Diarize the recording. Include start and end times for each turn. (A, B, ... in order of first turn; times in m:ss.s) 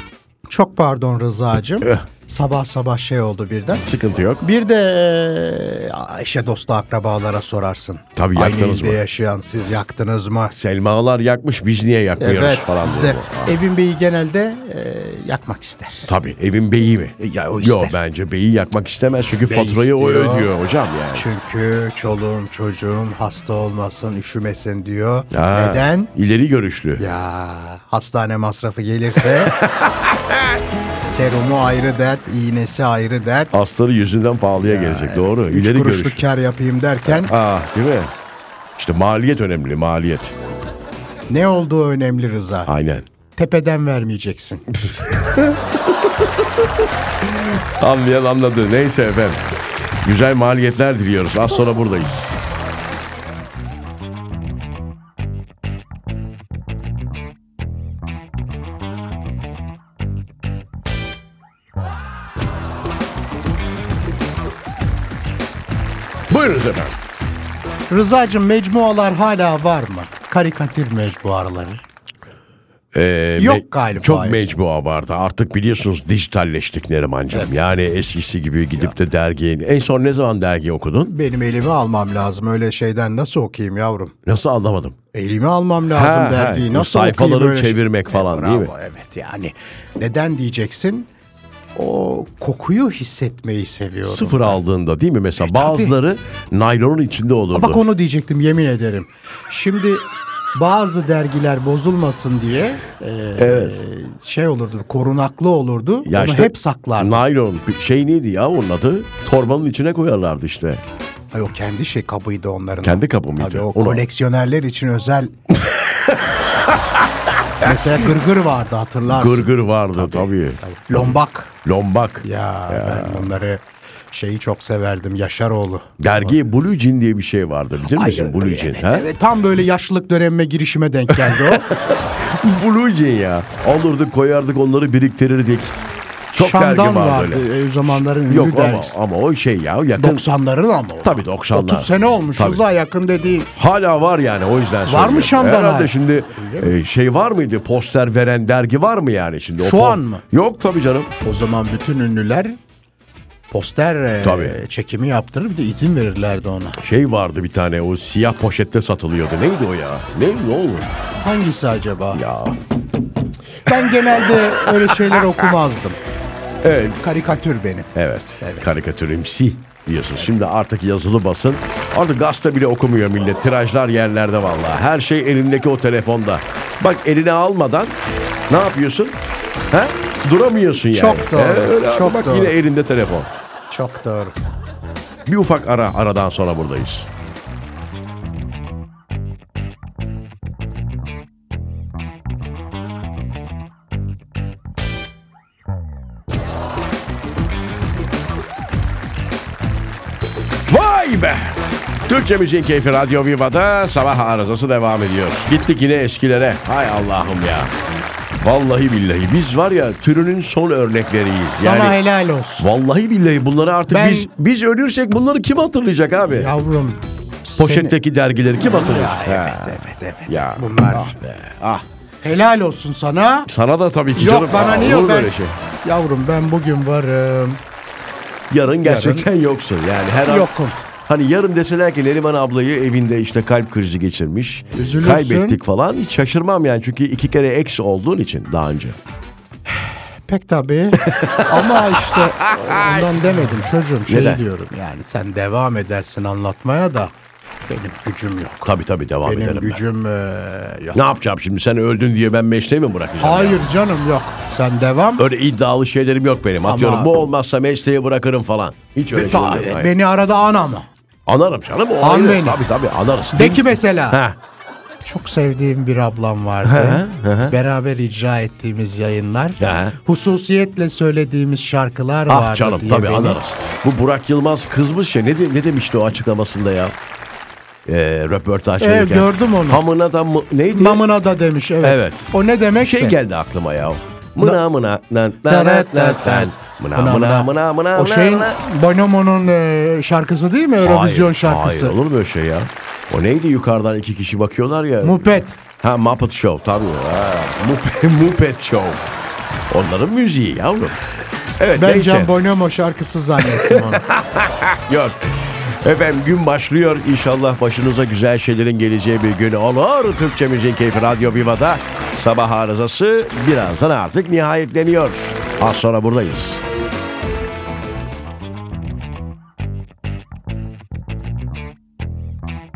0:00.5-0:03.9 A
0:03.8-0:04.4 B
0:04.4-0:10.6 A
0:08.2-0:09.0 B
0:10.5-0:13.6 B
0:12.2-0:16.1 A
0:16.1-0:21.3 B
0:17.2-0:18.0 A
0:19.5-0:20.5 A
0:21.1-0:26.1 A
0:25.3-0:27.1 B
0:27.0-0:29.6 A
0:29.4-0:30.2 B
0:31.0-0:33.5 A
0:33.5-0:36.2 B
0:34.6-0:37.4 A
0:37.0-0:38.1 B
0:38.8-0:40.3 B
0:41.3-0:42.7 A
0:42.7-0:43.1 B
0:43.4-0:44.8 A
0:44.9-0:46.6 B
0:47.2-0:49.4 B
0:50.0-0:52.4 B
1:06.3-1:07.0 B
1:07.9-1:11.8 A
1:12.9-1:21.1 B
1:13.4-1:14.6 A
1:21.0-1:24.1 A
1:24.3-1:25.0 B
1:25.1-1:31.1 A
1:25.9-1:28.7 B
1:31.8-1:34.6 A
1:34.0-1:37.8 B
1:35.4-1:36.0 A
1:37.5-1:47.2 A
1:43.4-1:43.8 B
1:46.0-1:50.8 B
1:51.3-1:55.3 A
1:52.8-1:54.0 B
1:55.5-1:57.0 B
1:57.6-1:58.0 B
1:57.6-2:01.5 A
1:59.0-2:03.3 B
2:02.2-2:05.9 A
2:06.0-2:09.1 B
2:07.9-2:11.7 A
2:11.1-2:15.7 B
2:16.3-2:20.3 B
2:16.3-2:19.0 A
2:20.0-2:23.5 A
2:21.0-2:22.6 B
2:23.5-2:31.1 B
2:24.8-2:26.8 A
2:29.6-2:30.2 A
2:31.2-2:32.6 A
2:33.5-2:36.8 A
2:34.2-2:34.6 B
2:36.8-2:40.9 B
2:41.2-2:42.2 A
2:42.1-2:42.6 B
2:43.7-2:46.0 A
2:43.7-2:45.5 B
2:46.6-2:47.2 B
2:47.0-2:48.7 A
2:47.9-2:58.0 B
2:58.5-2:59.2 B
2:59.7-3:03.3 B
3:00.9-3:02.6 A
3:03.7-3:04.4 A
3:05.3-3:07.1 B
3:20.7-3:27.7 B
3:28.4-3:32.0 B
3:31.5-3:32.7 A
3:32.6-3:36.5 B
3:33.9-3:34.3 A
3:36.3-3:38.0 A
3:37.6-3:41.8 B
3:38.5-3:41.1 A
3:42.2-3:43.5 A
3:43.5-3:45.5 B
3:44.1-3:47.6 A
3:48.5-3:50.5 B
3:48.8-3:49.3 A
3:50.2-3:50.8 A
3:51.1-3:59.0 B
3:54.8-3:55.6 A
3:59.8-4:07.1 A
4:00.9-4:03.1 B
4:04.1-4:04.4 B
4:07.7-4:08.7 A
4:08.6-4:09.8 B
4:09.2-4:11.0 A
4:10.9-4:13.6 B
4:13.2-4:15.3 A
4:15.2-4:19.9 B
4:16.6-4:17.3 A
4:19.2-4:20.9 A
4:21.3-4:24.4 B
4:22.0-4:22.7 A
4:23.3-4:24.2 A
4:25.0-4:33.4 A
4:26.6-4:27.6 B
4:29.6-4:30.0 B
4:32.3-4:37.0 B
4:37.9-4:41.0 B
4:38.8-4:39.8 A
4:40.7-4:43.2 A
4:41.8-4:42.3 B
4:42.8-4:48.6 B
4:45.5-4:52.0 A
4:50.8-4:59.0 B
4:55.0-4:55.6 A
4:59.7-5:01.0 B
5:01.6-5:02.3 B
5:01.8-5:04.0 A
5:03.4-5:16.6 B